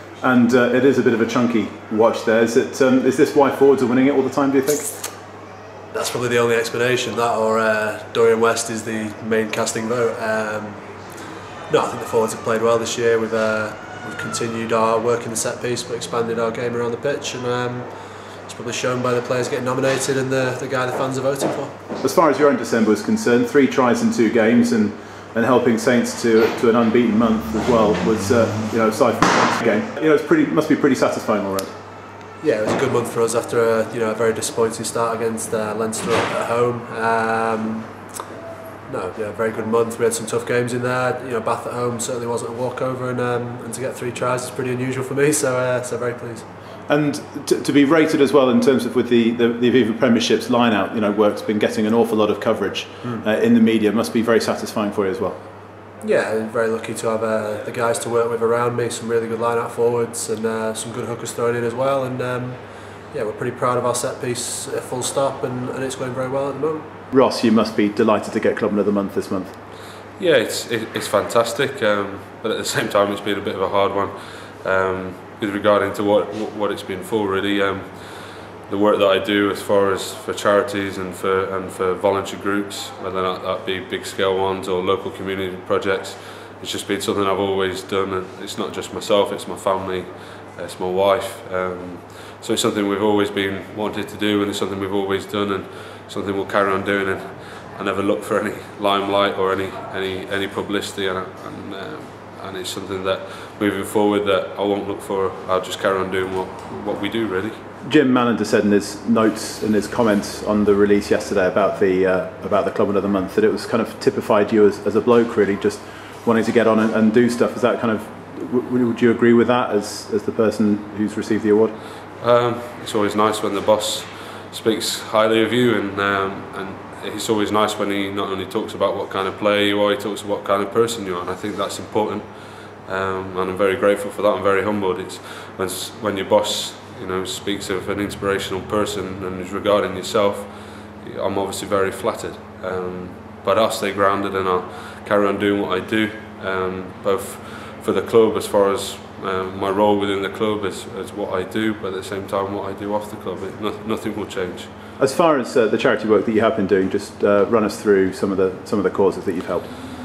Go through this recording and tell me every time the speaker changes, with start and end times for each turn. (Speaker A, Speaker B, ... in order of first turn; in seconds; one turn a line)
Speaker A: 0.2-5.0
Speaker B: 5.9-21.8
Speaker A: 22.0-31.7
Speaker B: 32.4-38.1
Speaker B: 38.9-46.5
Speaker A: 46.9-55.4
Speaker B: 56.0-66.9
Speaker A: 67.1-69.5
Speaker C: 70.1-107.6
Speaker A: 107.8-121.7
Speaker C: 122.2-154.7
Speaker A: 155.0-159.7